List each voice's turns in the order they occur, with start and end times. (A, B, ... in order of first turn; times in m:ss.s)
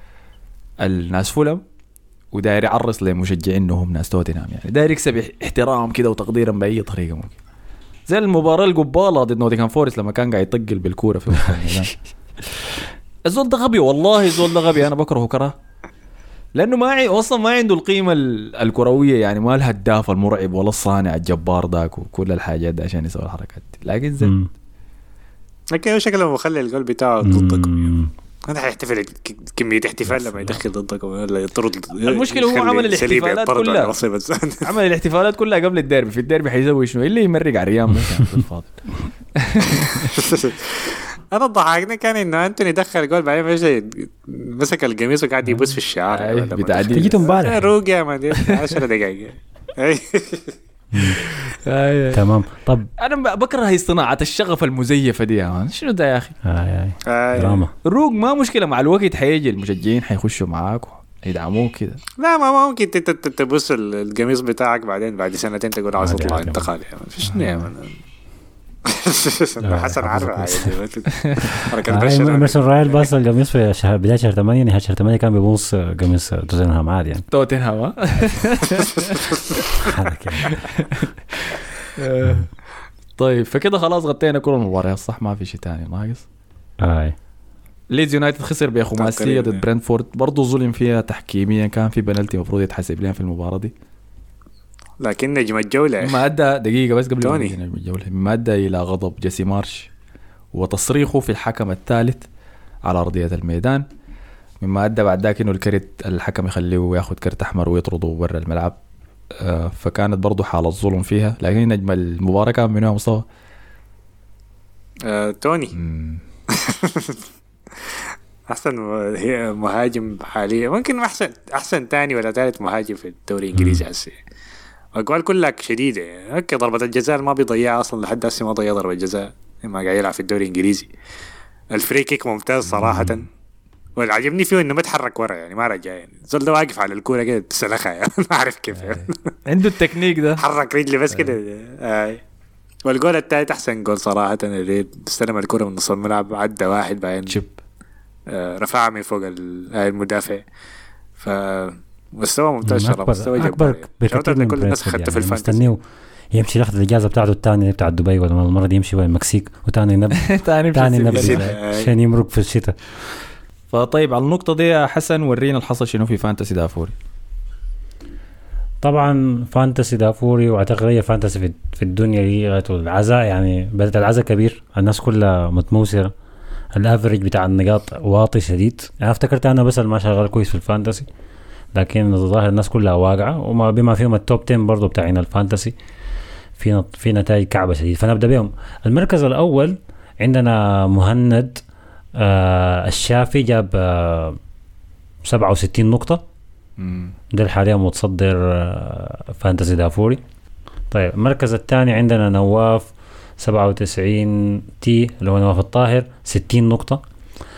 0:00.8-0:01.6 A
0:02.3-0:07.4 A
0:08.1-0:11.9 A
0:13.2-0:15.5 A
0:16.6-0:24.3 A
0:24.2-0:24.5 B
0:25.7-0:27.9 C
0:27.2-0:28.1 B
0:28.4-0:34.7 C
0:32.0-0:33.9 A
0:34.6-0:40.2 A
0:40.0-0:50.6 C
0:46.1-0:47.2 A
0:46.9-0:47.7 B
0:50.9-0:51.2 B
0:51.2-0:52.2 A
0:52.1-0:52.9 B
0:53.0-0:56.3 A
0:56.4-0:57.7 B
0:57.0-0:57.6 C
0:57.8-1:02.0 A
1:02.2-1:08.0 C
1:06.0-1:06.7 B
1:07.2-1:07.7 A
1:08.8-1:13.1 C
1:09.6-1:10.8 B
1:11.1-1:11.6 A
1:11.9-1:17.2 B
1:17.3-1:19.6 A
1:19.7-1:20.6 B
1:20.4-1:22.5 A
1:23.2-1:26.2 A
1:26.8-1:27.1 B
1:27.9-1:33.7 A
1:29.0-1:29.6 C
1:35.0-1:36.2 C
1:36.0-1:39.9 A
1:37.2-1:37.6 C
1:40.5-1:42.2 A
1:42.8-1:43.8 A
1:44.6-1:48.8 A
1:49.4-1:53.2 A
1:55.0-1:55.7 C
1:55.7-1:56.2 A
1:56.5-2:04.2 C
2:04.9-2:10.9 C
2:11.7-2:13.3 C
2:12.7-2:13.1 A
2:14.0-2:19.3 C
2:18.8-2:20.4 A
2:20.4-2:22.2 C
2:22.8-2:27.4 C
2:27.3-2:27.6 A
2:28.3-2:30.4 C
2:31.2-2:35.7 C
2:32.6-2:35.8 B
2:36.3-2:42.8 B
2:40.1-2:41.5 A
2:41.1-2:41.9 C
2:43.7-2:46.9 A
2:48.8-2:56.1 B
2:56.7-3:01.1 B
3:01.7-3:05.7 B
3:06.6-3:11.6 B
3:12.2-3:14.4 B
3:15.2-3:16.2 B
3:16.8-3:17.1 A
3:17.3-3:20.2 B
3:20.9-3:22.9 B
3:23.4-3:27.0 B